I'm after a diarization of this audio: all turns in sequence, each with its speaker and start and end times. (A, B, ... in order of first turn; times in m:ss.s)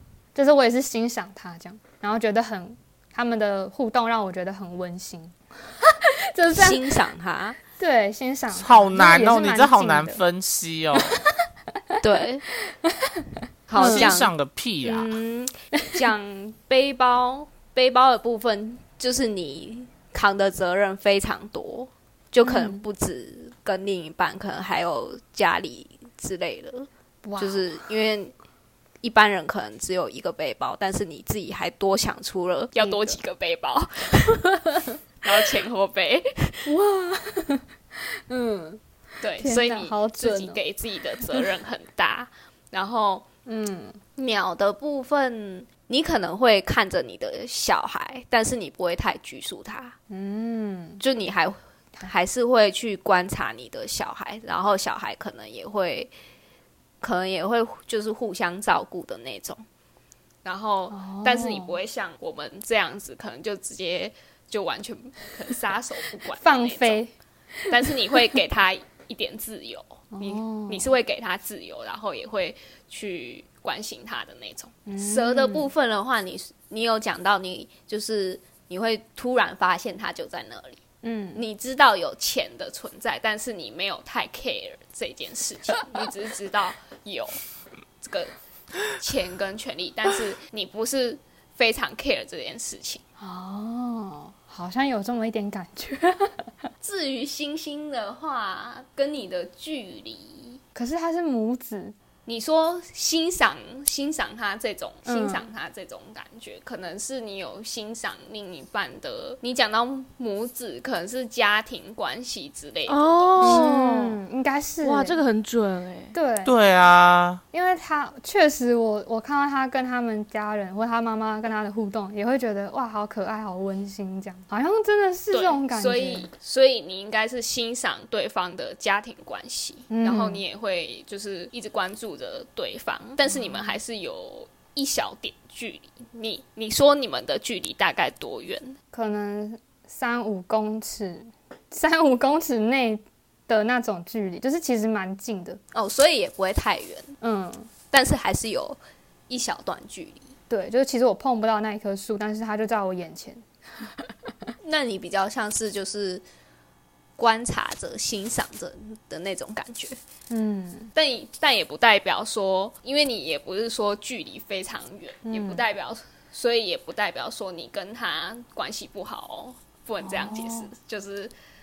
0:00.4-0:06.9 A
0:06.5-0:07.6 B
0:07.8-0:10.2 A
0:08.5-0:11.1 C
0:12.0-0:12.4 B
0:13.7-0:14.3 B
0:13.8-0:14.1 A
0:13.8-0:15.1 C
0:14.8-0:28.3 B
0:22.4-0:22.8 A
0:27.2-0:27.7 A
0:29.0-0:32.8 B
0:32.7-0:34.6 D
0:32.8-0:33.2 A
0:35.2-0:36.7 D
0:36.6-0:37.6 A
0:38.3-0:38.8 A
0:39.2-0:43.2 D
0:39.4-0:40.6 A
0:43.5-0:44.0 A
0:44.2-0:50.0 B
0:50.1-0:51.0 A
0:51.0-0:56.1 B
0:57.0-0:59.6 B
1:00.4-1:07.0 D
1:00.9-1:01.8 A
1:06.4-1:07.1 A
1:07.7-1:14.8 D
1:10.1-1:10.9 A
1:14.9-1:15.7 A
1:15.0-1:20.8 B
1:21.0-1:21.5 A
1:21.5-1:27.4 D
1:28.0-1:28.3 D
1:28.9-1:33.0 D
1:33.2-1:36.3 A
1:36.8-1:40.6 D
1:40.8-1:42.0 A
1:42.3-1:53.6 D
1:45.1-1:45.5 A
1:52.9-1:54.2 E
1:53.4-1:55.2 A
1:54.8-1:56.1 E
1:56.1-1:56.5 A
1:56.4-1:57.4 C
1:57.5-2:06.3 A
2:05.3-2:18.8 D
2:09.9-2:10.4 A
2:13.3-2:13.8 A
2:18.9-2:25.6 A
2:25.7-2:27.1 B
2:27.2-2:27.7 A
2:27.9-2:30.3 B
2:30.5-2:33.4 A
2:34.6-2:36.2 B
2:37.2-2:40.0 B
2:40.3-2:40.9 A
2:41.0-2:51.3 D
2:45.3-2:45.6 A
2:50.0-2:50.7 A